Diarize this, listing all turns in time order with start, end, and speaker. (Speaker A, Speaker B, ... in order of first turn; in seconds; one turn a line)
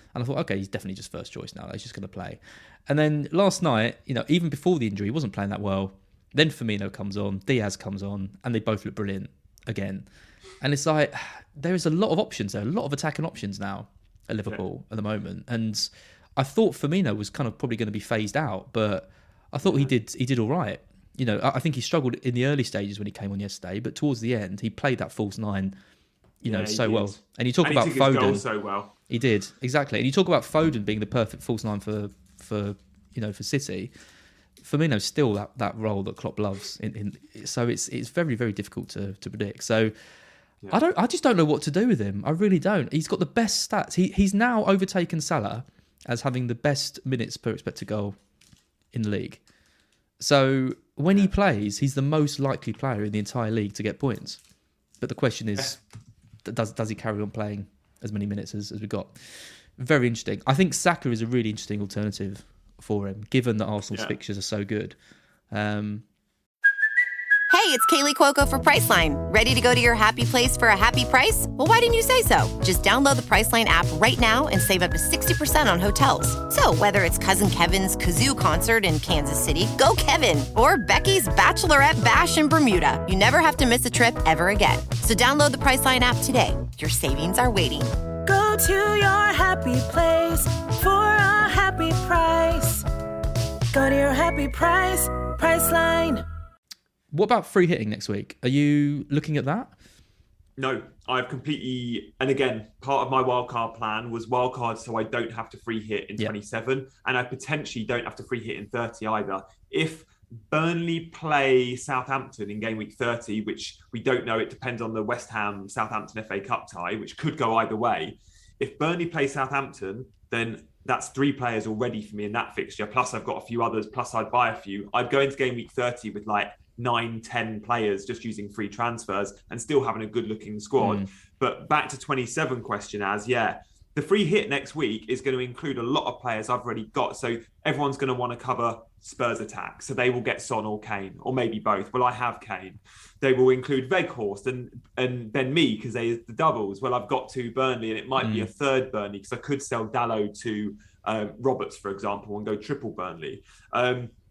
Speaker A: 0.1-10.1
Speaker A: 10.6-25.8
Speaker B: 19.6-19.9
Speaker A: 26.4-28.4
Speaker B: 26.5-28.9
Speaker A: 29.1-33.9
Speaker A: 34.6-39.9
Speaker A: 40.7-48.2
Speaker A: 48.9-49.4
Speaker A: 50.2-54.4
Speaker A: 55.0-55.8
Speaker A: 56.4-65.0
Speaker B: 63.9-64.2
Speaker A: 65.5-66.0
Speaker C: 67.5-87.9
Speaker D: 88.2-92.8
Speaker D: 93.7-96.2
Speaker A: 97.1-99.7
Speaker B: 100.6-154.1
Speaker A: 130.8-131.1
Speaker A: 148.2-148.5